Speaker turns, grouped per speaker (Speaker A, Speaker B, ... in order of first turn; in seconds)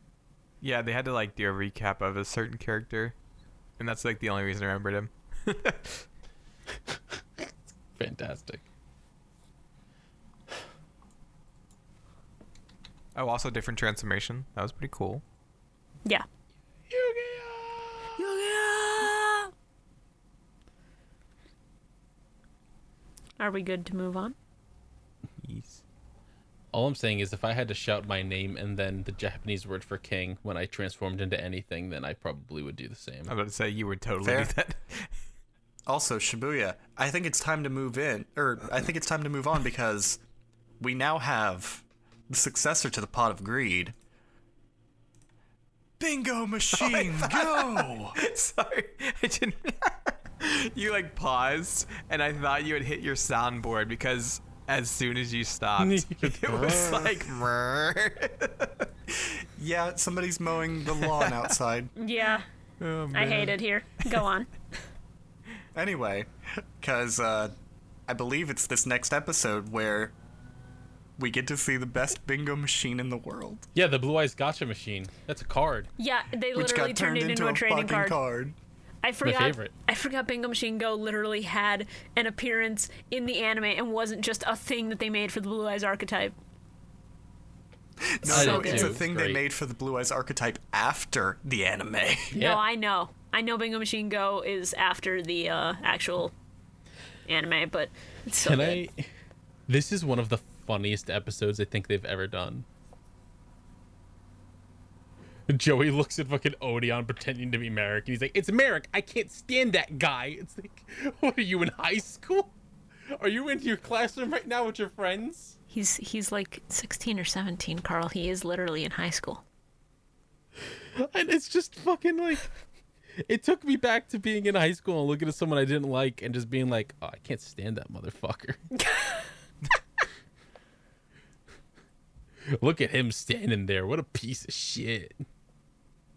Speaker A: 0.6-3.1, 3.8-6.0, 13.1-15.2, 25.4-25.8, 33.3-35.1, 46.7-58.9, 61.0-61.4, 62.8-63.6
Speaker B: 6.9-8.6, 16.9-17.8, 26.7-33.3, 55.8-57.1, 73.7-75.9, 79.2-79.7, 88.2-89.4, 92.3-92.6, 98.4-99.1, 99.7-102.7, 105.5-112.5, 113.2-115.5, 121.0-122.5, 123.3-128.6, 132.5-135.2
Speaker C: 18.2-19.5, 23.4-24.3, 62.0-62.4, 63.1-64.5, 76.0-78.2, 79.0-86.3, 88.2-89.0, 92.3-96.3, 97.2-98.8, 115.7-119.4, 128.8-129.2
Speaker D: 34.2-34.5, 35.9-40.2, 40.8-43.9, 46.0-48.2, 59.1-61.9, 65.7-67.5, 68.1-70.1, 71.2-73.7, 76.5-78.5, 88.0-92.3